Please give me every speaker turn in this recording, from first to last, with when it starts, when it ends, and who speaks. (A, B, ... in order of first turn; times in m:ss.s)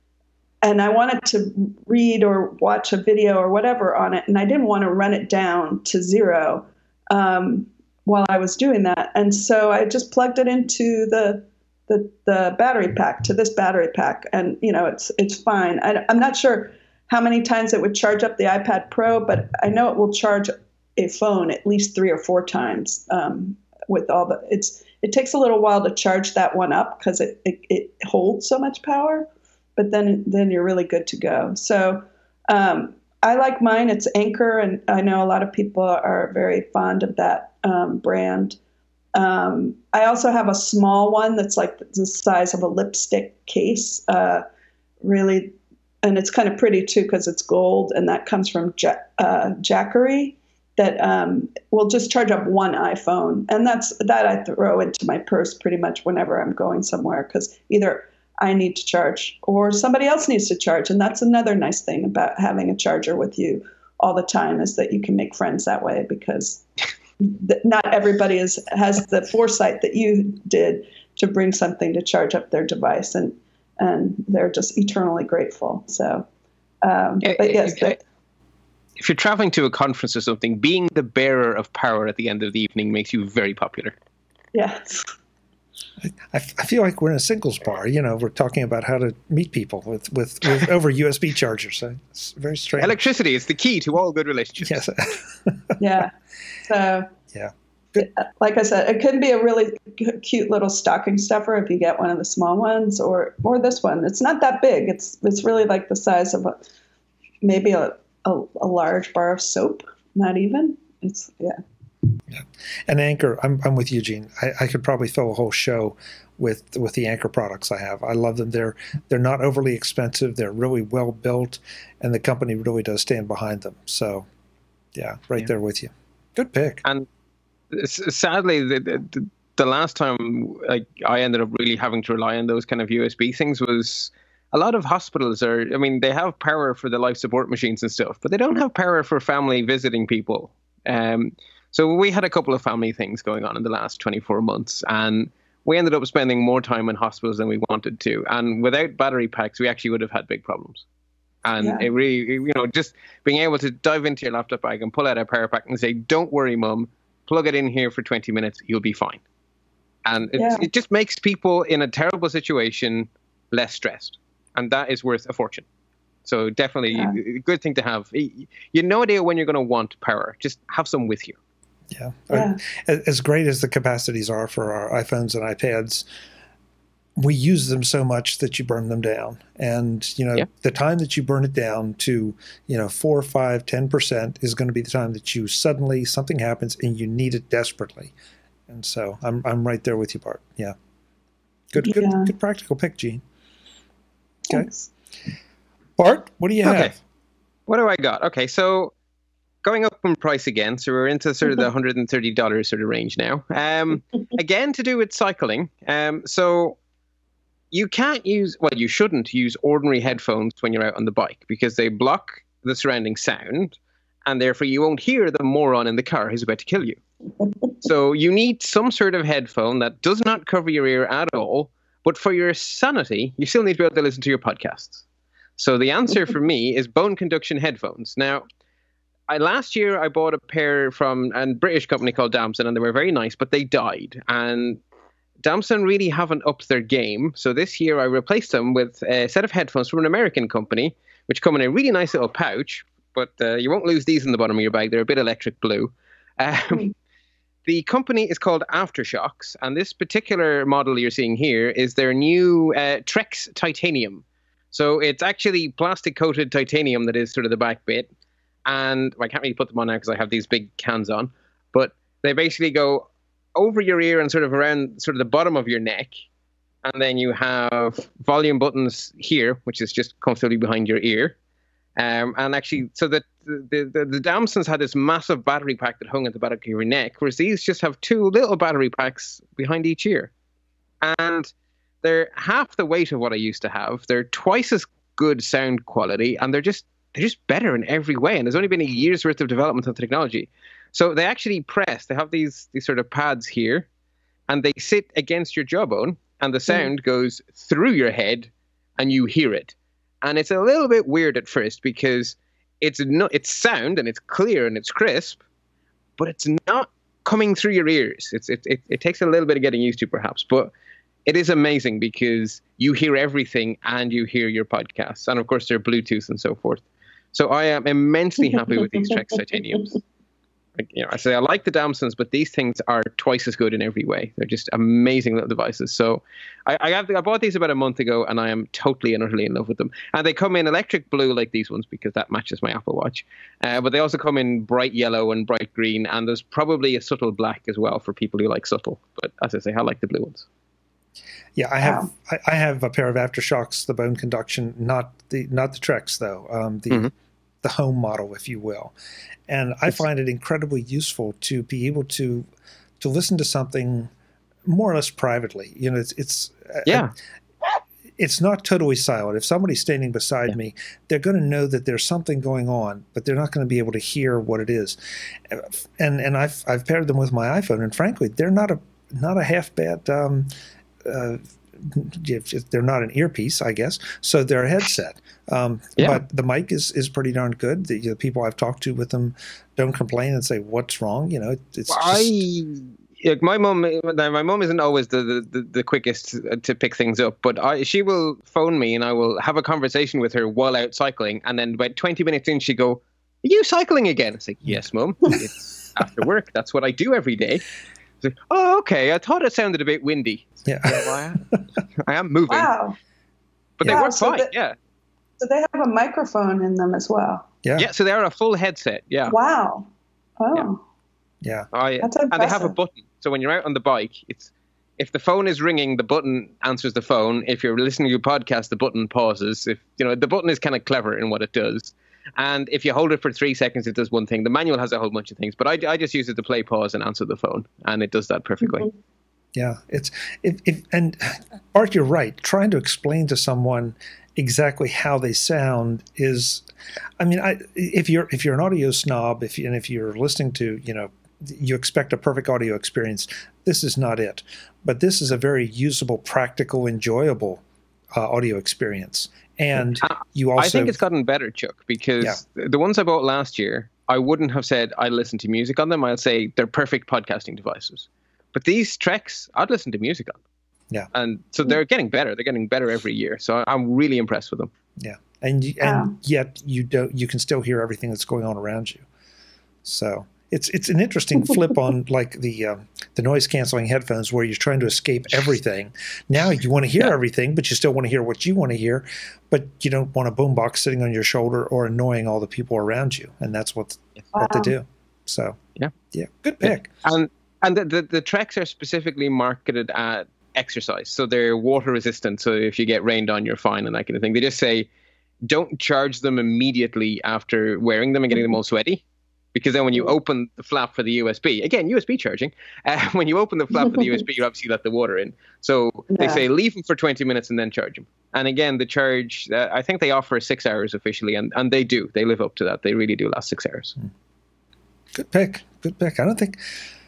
0:00.6-0:38.6 A
0:39.1-0:44.4 A
0:45.0-1:06.6 A
1:07.2-1:16.3 A
1:16.8-1:18.0 A
1:17.2-1:18.0 B
1:19.0-1:24.0 B
1:24.5-1:25.1 A
1:26.0-1:33.0 C
1:32.8-1:34.8 B
1:34.6-1:35.8 C
1:35.8-1:36.1 A
1:36.6-1:37.1 A
1:37.3-1:38.1 C
1:38.0-1:46.6 A
1:47.4-1:51.6 A
1:52.3-2:04.3 C
2:05.0-2:06.8 C
2:07.7-2:30.8 B
2:31.4-2:39.2 B
2:31.6-2:31.9 A
2:40.0-2:45.6 B
2:40.4-2:40.7 A
2:46.2-2:51.4 B
2:46.9-2:47.2 A
2:51.9-2:56.1 C
2:52.3-2:52.6 A
2:57.2-3:08.1 C
3:08.7-3:10.8 C
3:11.7-3:13.2 C
3:11.8-3:12.3 A
3:14.5-3:14.9 A
3:16.0-3:17.0 C
3:16.6-3:16.9 B
3:17.7-3:18.9 B
3:19.6-3:26.8 B
3:27.7-3:37.0 B
3:37.8-3:45.0 B
3:45.6-3:48.4 B
3:49.3-3:54.8 B
3:55.4-4:06.9 B
4:07.7-4:18.1 B
4:18.7-4:26.2 B
4:26.8-4:31.4 B
4:32.0-4:40.3 B
4:41.0-4:41.5 B
4:42.0-4:53.9 B
4:54.5-5:05.4 B
5:06.2-5:10.7 B
5:11.3-5:20.0 B
5:20.8-5:40.5 B
5:41.6-5:47.1 C
5:41.8-5:42.1 A
5:47.6-5:48.9 C
5:49.5-5:52.5 C
5:53.0-5:54.1 C
5:54.7-5:57.1 C
5:56.9-5:57.1 B
5:58.2-6:05.0 C
6:05.5-6:10.5 C
6:11.0-6:22.4 C
6:21.9-6:37.6 B
6:38.2-6:41.4 B
6:40.7-6:41.6 C
6:42.0-6:42.7 B
6:42.5-6:43.0 A
6:43.8-6:44.7 B
6:43.8-6:44.5 A
6:45.4-6:47.5 A
6:47.8-6:49.4 B
6:49.3-6:49.9 A
6:50.4-6:50.8 A
6:51.4-6:51.7 C
6:51.7-7:08.9 B
6:52.0-6:52.7 A
7:09.6-7:16.6 C
7:17.2-7:27.6 C
7:28.1-7:31.0 C
7:30.0-7:40.4 B
7:41.1-7:44.7 B
7:45.0-7:49.0 C
7:45.8-7:46.1 A
7:49.8-8:05.6 C
8:04.3-8:04.7 A
8:06.1-8:06.9 C
8:06.6-8:14.9 B
8:15.4-8:34.0 B
8:26.1-8:26.4 A
8:35.1-8:36.6 C